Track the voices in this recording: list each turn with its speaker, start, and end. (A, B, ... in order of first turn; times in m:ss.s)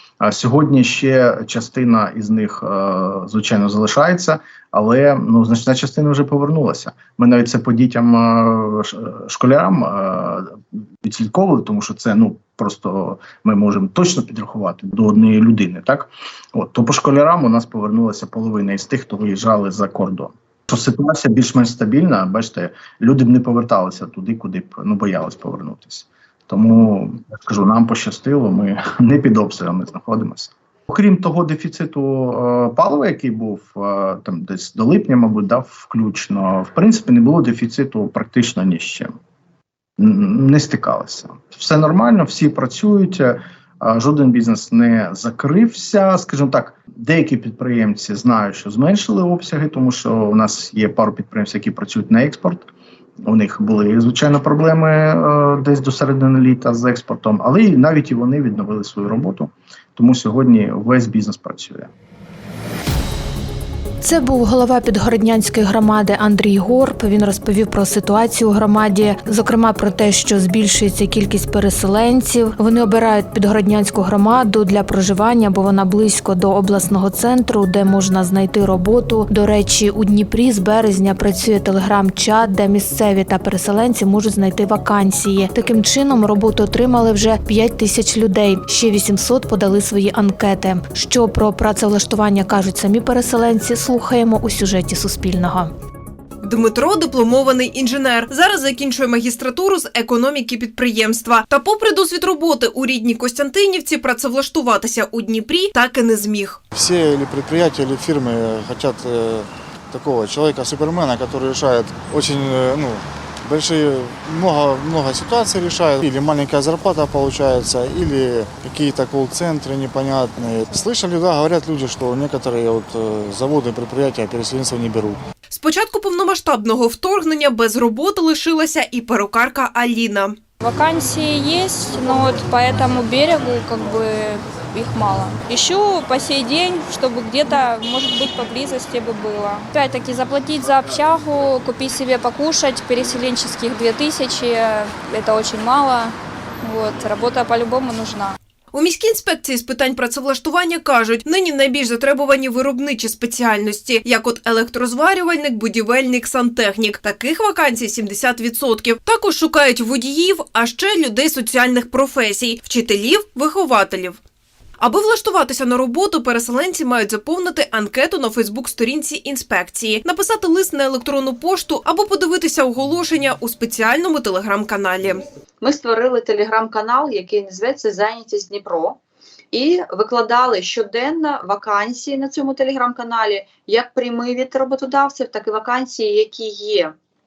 0:00.2-0:39.1 A
0:40.0-0:52.7 A
0:53.2-1:01.9 A
1:04.0-1:35.7 B
1:36.4-1:46.6 C
1:46.7-2:05.2 D
2:05.5-2:10.4 C
2:10.6-2:28.4 E
2:28.7-2:44.2 C
2:44.8-2:55.2 C
2:55.6-2:59.0 F
2:59.5-3:06.9 F